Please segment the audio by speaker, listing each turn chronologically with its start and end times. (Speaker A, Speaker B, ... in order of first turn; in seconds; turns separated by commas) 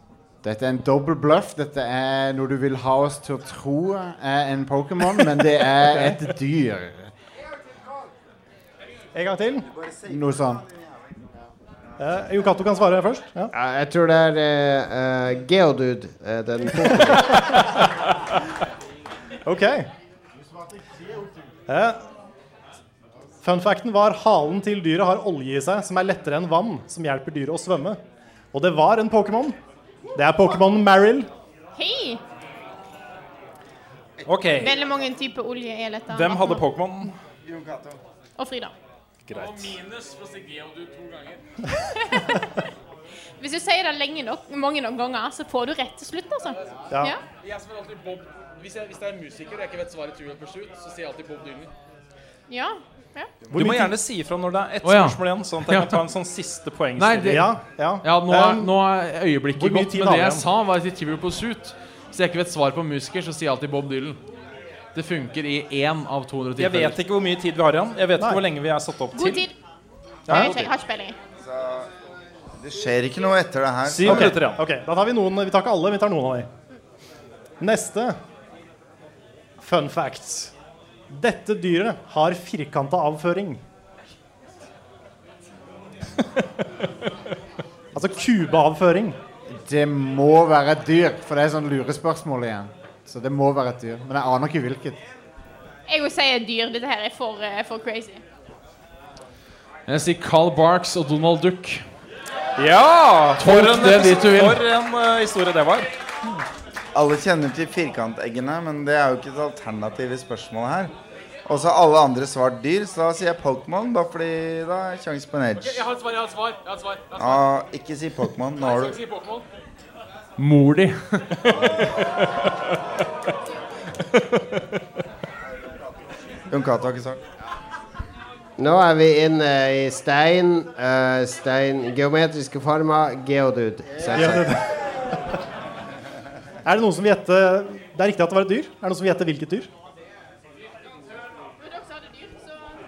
Speaker A: 0.4-7.1, Speaker B: 5.8-6.2, Speaker B: 9.2-9.7, Speaker C: 9.7-10.5, Speaker A: 10.1-10.6, Speaker B: 12.0-13.5, Speaker D: 13.5-17.6, Speaker B: 19.4-19.9, Speaker B: 21.7-22.0, Speaker B: 23.4-28.0, Speaker B: 28.5-29.6, Speaker B: 30.1-31.3, Speaker E: 31.8-32.2, Speaker C: 34.2-34.7, Speaker F: 34.3-34.7, Speaker E: 34.6-36.6, Speaker F: 36.1-37.1, Speaker C: 37.5-38.0, Speaker E: 38.4-38.7, Speaker F: 39.3-39.8, Speaker G: 39.3-41.4, Speaker E: 42.0-42.5, Speaker E: 43.4-47.2, Speaker G: 47.4-51.7, Speaker E: 52.5-53.3, Speaker B: 53.5-54.0, Speaker F: 53.5-57.5, Speaker H: 54.8-56.0, Speaker H: 57.0-57.5, Speaker B: 57.3-58.8, Speaker H: 58.0-64.2, Speaker B: 59.6-60.5, Speaker H: 65.0-67.0, Speaker F: 66.6-69.5, Speaker B: 68.2-68.4, Speaker E: 69.2-69.5, Speaker F: 70.3-70.7, Speaker B: 70.3-70.5, Speaker E: 70.3-71.2, Speaker C: 71.4-71.9, Speaker C: 72.6-74.4, Speaker F: 73.9-74.6, Speaker B: 74.0-76.5, Speaker B: 77.6-78.2, Speaker B: 79.6-80.5, Speaker B: 81.1-83.6, Speaker B: 87.9-89.2, Speaker A: 89.5-95.0, Speaker E: 95.9-98.2, Speaker H: 99.9-101.8, Speaker F: 102.6-105.9, Speaker H: 103.4-104.6, Speaker C: 107.0-110.9, Speaker C: 111.5-115.9, Speaker G: 115.6-117.6, Speaker C: 117.2-119.0, Speaker G: 118.6-119.5, Speaker H: 120.4-121.5, Speaker C: 126.5-127.2, Speaker D: 128.6-134.6, Speaker B: 134.1-134.6, Speaker B: 136.7-139.7, Speaker E: 141.6-142.6